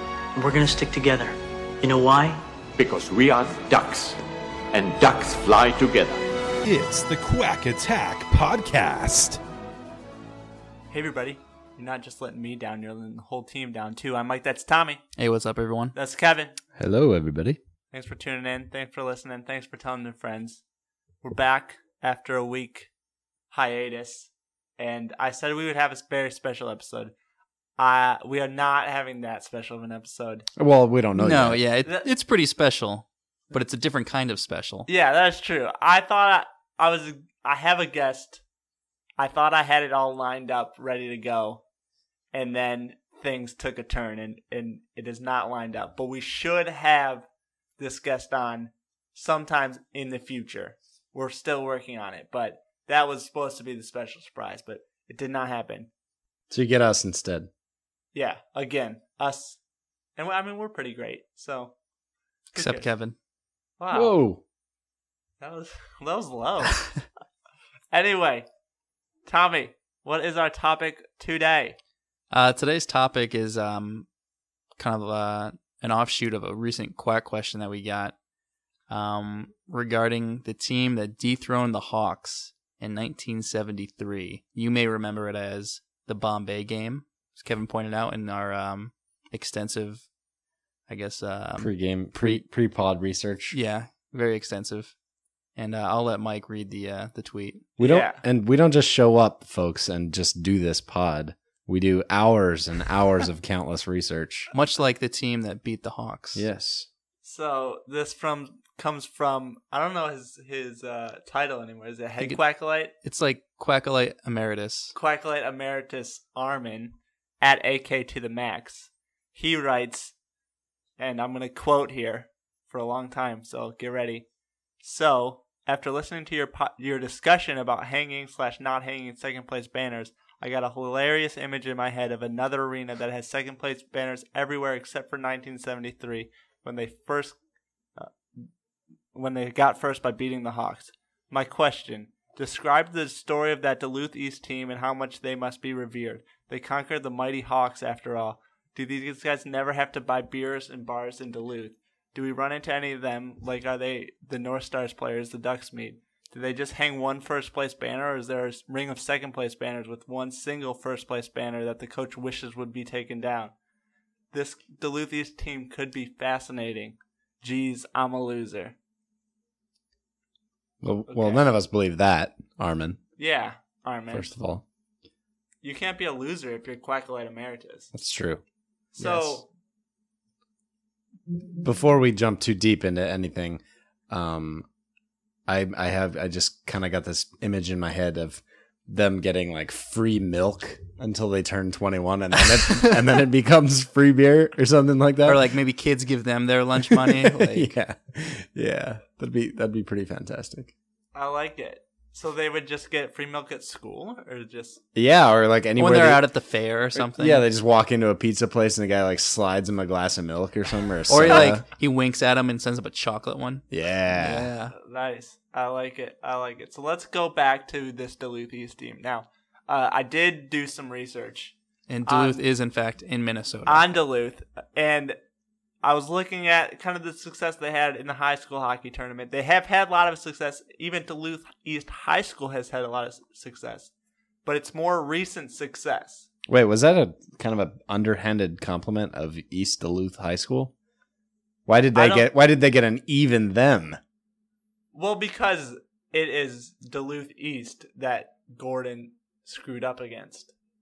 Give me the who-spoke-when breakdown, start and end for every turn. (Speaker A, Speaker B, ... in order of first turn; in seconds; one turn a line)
Speaker A: 0.3-2.4
Speaker B: 2.8-4.2
Speaker B: 4.7-6.2
Speaker C: 6.6-9.4
Speaker D: 10.9-15.0
Speaker E: 15.2-15.9
Speaker D: 15.9-16.6
Speaker F: 16.8-17.6
Speaker D: 17.9-20.6
Speaker D: 21.2-22.9
Speaker D: 23.5-27.1
Speaker D: 27.8-30.5
Speaker F: 30.6-31.6
Speaker E: 31.2-34.9
Speaker D: 34.9-38.4
Speaker D: 39.2-41.6
Speaker D: 42.3-47.2
Speaker D: 47.8-55.9
Speaker F: 56.5-57.5
Speaker D: 58.1-59.6
Speaker D: 60.2-61.7
Speaker D: 62.5-62.9
Speaker E: 62.5-63.1
Speaker D: 63.8-64.2
Speaker F: 63.9-64.4
Speaker D: 65.4-66.9
Speaker D: 67.9-68.5
Speaker D: 69.2-71.8
Speaker E: 72.3-74.1
Speaker E: 74.8-78.1
Speaker E: 78.9-90.0
Speaker E: 90.9-92.4
Speaker F: 91.6-93.5
Speaker E: 93.5-94.9
Speaker E: 95.5-97.7
Speaker D: 97.8-98.2
Speaker F: 97.8-104.5
Speaker E: 104.5-106.4
Speaker F: 106.3-106.9
Speaker D: 107.2-112.9
Speaker E: 113.0-114.9
Speaker D: 114.9-120.1
Speaker D: 121.0-124.2
Speaker D: 124.8-137.4
Speaker D: 137.9-138.5
Speaker D: 139.1-163.5
Speaker D: 164.3-168.7
Speaker F: 170.8-173.0
Speaker D: 171.1-171.4
Speaker D: 173.2-174.3
Speaker F: 174.1-174.6
Speaker D: 175.6-177.9
Speaker F: 177.9-178.4
Speaker D: 178.9-179.5
Speaker F: 179.0-179.4
Speaker F: 181.6-184.7
Speaker F: 185.5-195.5
Speaker E: 195.2-197.7
Speaker F: 196.8-200.7
Speaker D: 201.1-204.8
Speaker F: 204.9-206.2
Speaker E: 205.8-207.4
Speaker F: 206.9-211.6
Speaker E: 211.1-214.7
Speaker F: 213.7-214.5
Speaker D: 214.7-221.5
Speaker E: 221.9-223.8
Speaker D: 222.1-222.4
Speaker D: 223.7-225.2
Speaker D: 225.8-233.9
Speaker D: 234.4-236.3
Speaker F: 236.5-240.7
Speaker F: 241.7-244.0
Speaker D: 241.9-242.3
Speaker D: 244.9-250.5